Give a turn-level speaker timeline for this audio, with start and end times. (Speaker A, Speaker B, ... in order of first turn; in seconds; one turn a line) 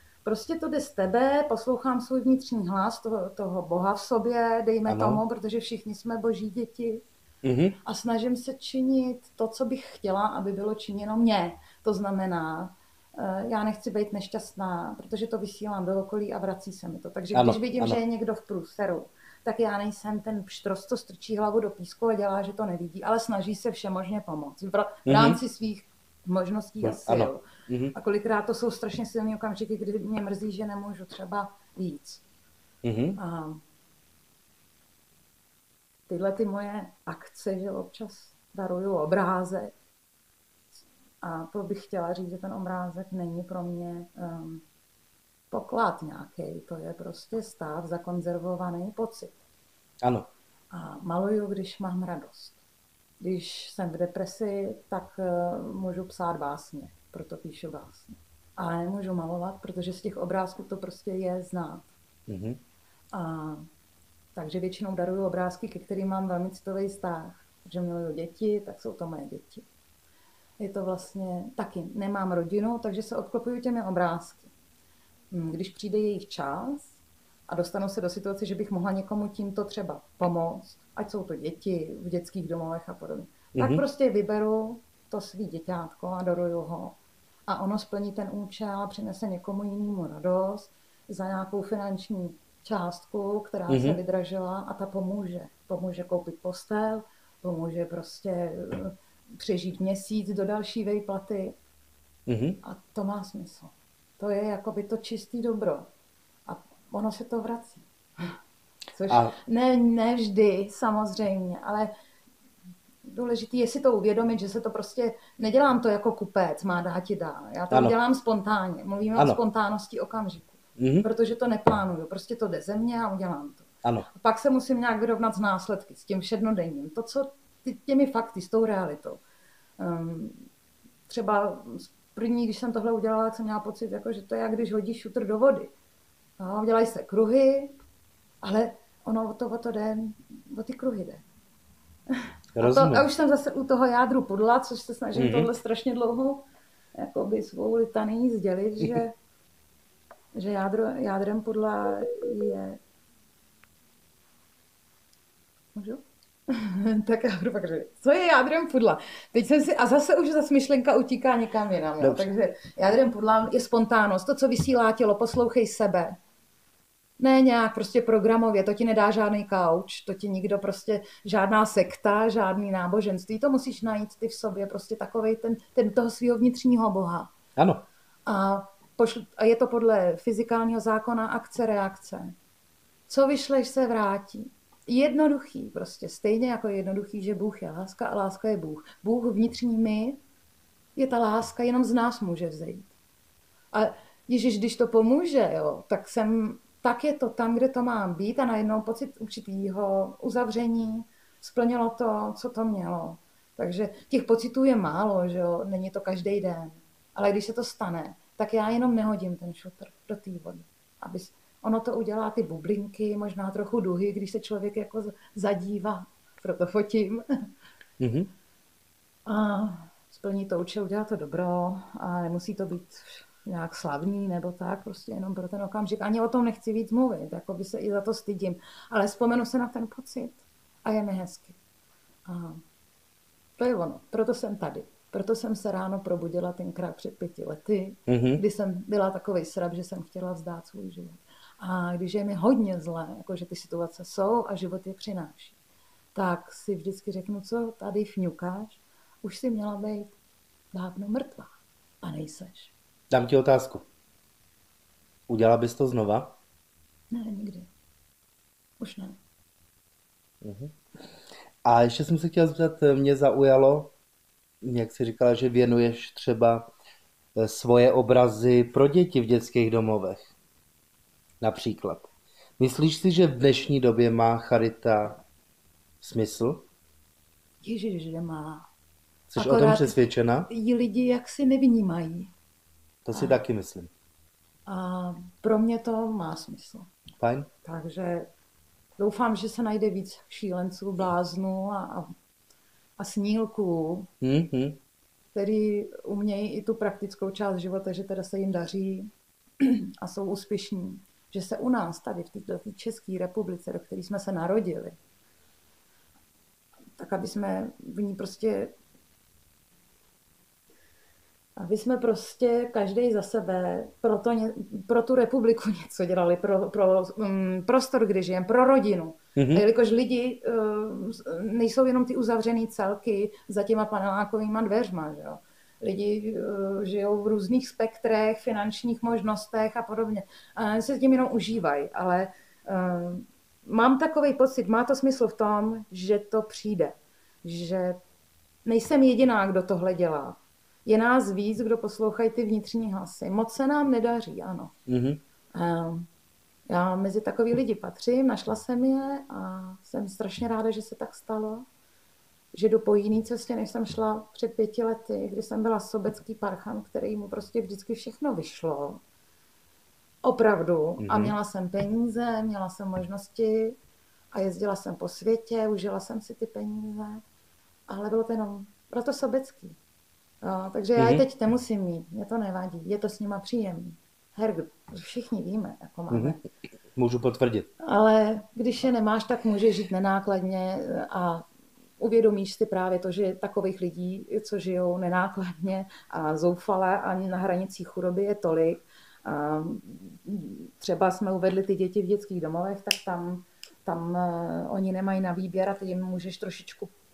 Speaker A: 0.2-7.0
Speaker B: 4.9-5.2
Speaker B: 7.4-7.8
Speaker A: 7.8-27.4
Speaker B: 17.4-18.0
Speaker B: 25.1-25.4
Speaker B: 26.8-27.9
Speaker A: 27.9-32.2
Speaker B: 32.8-33.2
Speaker A: 33.2-33.6
Speaker A: 36.1-39.7
Speaker A: 41.2-44.6
Speaker A: 45.5-49.4
Speaker B: 50.0-50.3
Speaker A: 50.7-52.6
Speaker A: 53.2-61.9
Speaker B: 62.3-62.6
Speaker A: 63.1-63.7
Speaker A: 64.3-69.7
Speaker A: 70.6-74.5
Speaker A: 75.3-76.9
Speaker A: 77.5-101.6
Speaker B: 83.5-83.8
Speaker B: 93.7-94.0
Speaker B: 102.3-102.6
Speaker A: 102.6-105.9
Speaker A: 106.5-108.3
Speaker A: 109.0-111.9
Speaker B: 109.1-109.3
Speaker A: 113.1-129.2
Speaker B: 120.8-121.1
Speaker A: 129.8-130.4
Speaker A: 131.1-135.7
Speaker A: 136.4-137.7
Speaker A: 138.4-141.2
Speaker A: 142.1-149.2
Speaker B: 142.6-143.1
Speaker B: 145.2-145.5
Speaker A: 150.3-152.8
Speaker A: 155.8-166.2
Speaker B: 162.0-162.3
Speaker A: 167.2-177.3
Speaker B: 177.6-177.8
Speaker A: 178.3-182.3
Speaker A: 183.1-190.2
Speaker A: 191.0-192.9
Speaker A: 193.7-217.2
Speaker B: 218.0-218.3
Speaker A: 219.3-231.6
Speaker A: 232.3-232.6
Speaker A: 233.6-245.6
Speaker B: 238.1-238.4
Speaker A: 246.2-250.2
Speaker A: 250.7-251.5
Speaker A: 252.0-252.7
Speaker B: 253.1-253.8
Speaker B: 255.3-256.4
Speaker A: 257.1-257.7
Speaker A: 258.8-259.2
Speaker B: 260.4-260.7
Speaker B: 261.6-263.9
Speaker B: 264.6-266.7
Speaker B: 267.4-270.3
Speaker B: 271.4-275.2
Speaker B: 276.0-276.6
Speaker A: 277.6-278.7
Speaker B: 279.3-280.5
Speaker A: 279.4-280.0
Speaker A: 280.5-282.3
Speaker B: 283.1-283.9
Speaker A: 283.1-283.4
Speaker A: 284.7-286.9
Speaker B: 287.2-287.5
Speaker A: 287.6-288.3
Speaker A: 289.0-292.1
Speaker A: 293.0-294.1
Speaker B: 294.2-294.8
Speaker A: 295.3-305.0
Speaker A: 307.0-308.7
Speaker A: 311.6-338.0
Speaker B: 319.4-319.6
Speaker A: 338.6-344.7
Speaker B: 344.9-345.2
Speaker A: 345.5-346.1
Speaker A: 346.7-351.6
Speaker A: 352.5-359.0
Speaker A: 360.2-363.8
Speaker B: 361.0-361.4
Speaker A: 364.3-367.2
Speaker A: 367.9-369.8
Speaker A: 370.4-376.5
Speaker B: 371.0-371.2
Speaker B: 376.1-376.4
Speaker B: 377.0-377.7
Speaker A: 377.8-381.5
Speaker A: 382.0-396.9